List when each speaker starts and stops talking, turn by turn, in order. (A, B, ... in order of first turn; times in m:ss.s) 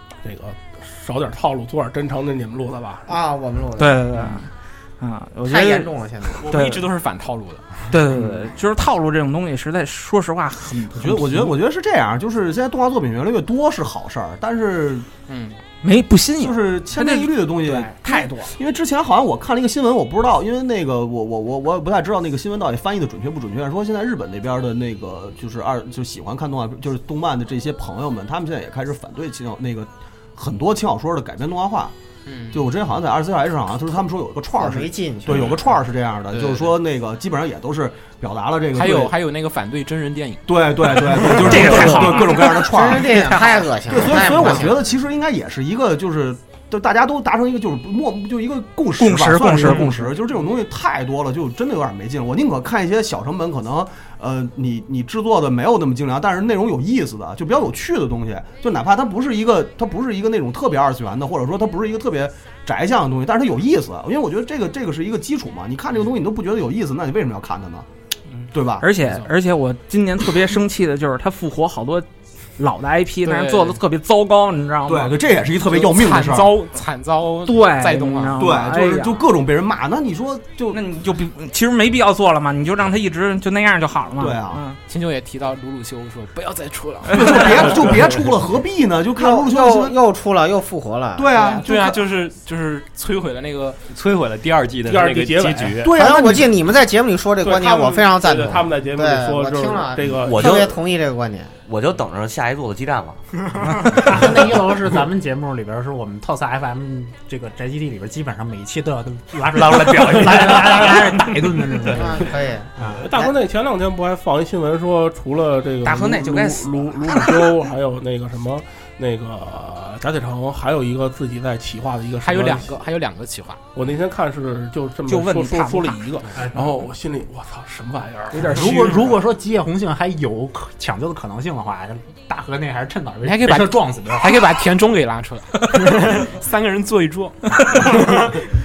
0:00.2-0:03.1 A
0:03.1-0:04.0 B
0:03.8-0:05.9 C
0:05.5-0:06.5 B
0:06.4-0:06.9 C
0:06.4-0:07.9 D
0:07.9-0:11.5 C
0:10.9-0:15.1 E
0:15.3-0:15.6 D
0:15.8-0:18.5 C
0:16.4-0:31.9 E
0:32.3-0:32.6 D
0:32.5-0:39.1 E
0:34.6-0:35.5 B
0:36.3-0:36.7 D
0:38.8-0:41.9 D
0:40.5-1:07.9 E
0:41.5-0:42.3 C
0:42.6-0:44.8 B
0:43.3-0:43.6 C
0:49.0-0:50.1 C
1:08.5-1:08.9 E
1:08.8-1:12.1 C
1:09.0-1:09.3 D
1:12.6-1:15.2 C
1:13.2-1:13.8 D
1:14.9-1:16.6 E
1:15.7-1:18.5 D
1:17.4-1:19.2 C
1:18.4-1:20.8 E
1:20.7-1:24.8 C
1:24.2-1:24.6 E
1:24.9-1:28.1 D
1:27.1-1:30.0 E
1:29.2-1:31.3 B
1:31.2-1:32.0 E
1:31.4-1:33.8 D
1:33.9-1:35.9 F
1:34.8-1:35.8 A
1:35.8-1:36.5 E
1:36.0-1:41.5 B
1:37.4-1:40.7 A
1:40.2-1:40.8 G
1:41.7-1:43.2 G
1:43.7-1:53.0 H
1:51.9-1:53.3 B
1:53.0-2:02.8 A
1:55.8-1:57.5 C
2:02.2-2:03.6 D
2:03.7-2:09.0 A
2:05.1-2:06.2 C
2:08.4-2:14.5 H
2:08.4-2:09.0 C
2:13.2-2:18.2 D